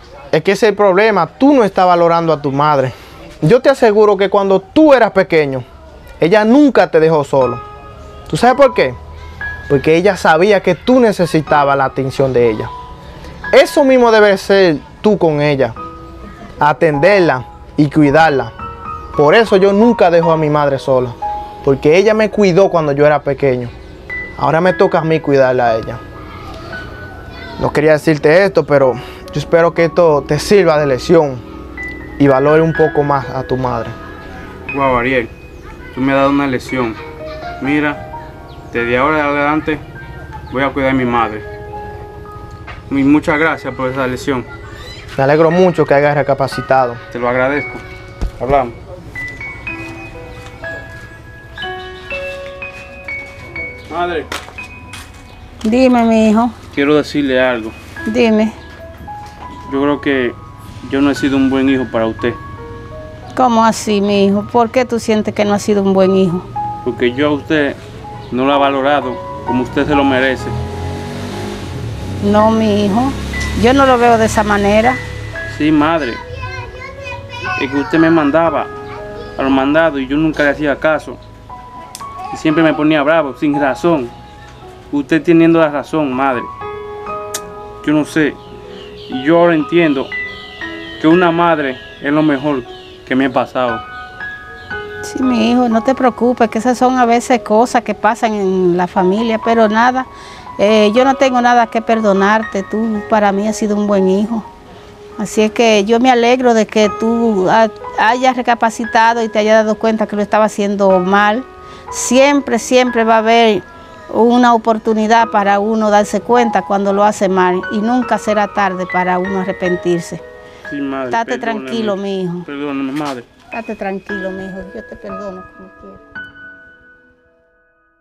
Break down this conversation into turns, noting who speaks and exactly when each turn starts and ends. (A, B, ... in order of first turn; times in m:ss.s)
0:00.3-0:05.6 A
0:06.2-0:07.6 A
0:08.3-0:09.0 A
0:09.7-0:12.7 A
0:13.5-0:15.7 A
0:16.6-0:18.5 A
0:19.1-0:23.7 A
0:24.4-0:26.0 A
0:27.6-0:31.4 A
0:32.2-0:33.9 A
0:34.7-0:35.3 B
0:35.9-0:37.0 B
0:37.6-0:38.0 B
0:38.7-0:39.8 B
0:40.5-0:41.4 B
0:42.9-0:44.5 B
0:45.2-0:47.0 A
0:47.1-0:47.8 B
0:48.4-0:48.7 B
0:53.9-0:54.3 B
0:55.6-0:56.5 C
0:56.7-0:57.7 B
0:58.0-0:58.5 C
0:59.7-1:02.4 B
1:03.4-1:06.4 C
1:06.8-1:07.8 B
1:08.3-1:10.5 B
1:12.2-1:15.0 C
1:15.5-1:16.2 B
1:17.6-1:18.7 B
1:19.4-1:21.2 B
1:22.3-1:24.1 B
1:24.9-1:26.5 B
1:27.8-1:28.4 B
1:29.1-1:30.1 B
1:31.0-1:33.8 B
1:35.0-1:44.5 C
1:45.2-2:00.2 C
2:00.7-2:03.3 B
2:01.1-2:02.4 C
2:03.5-2:06.0 C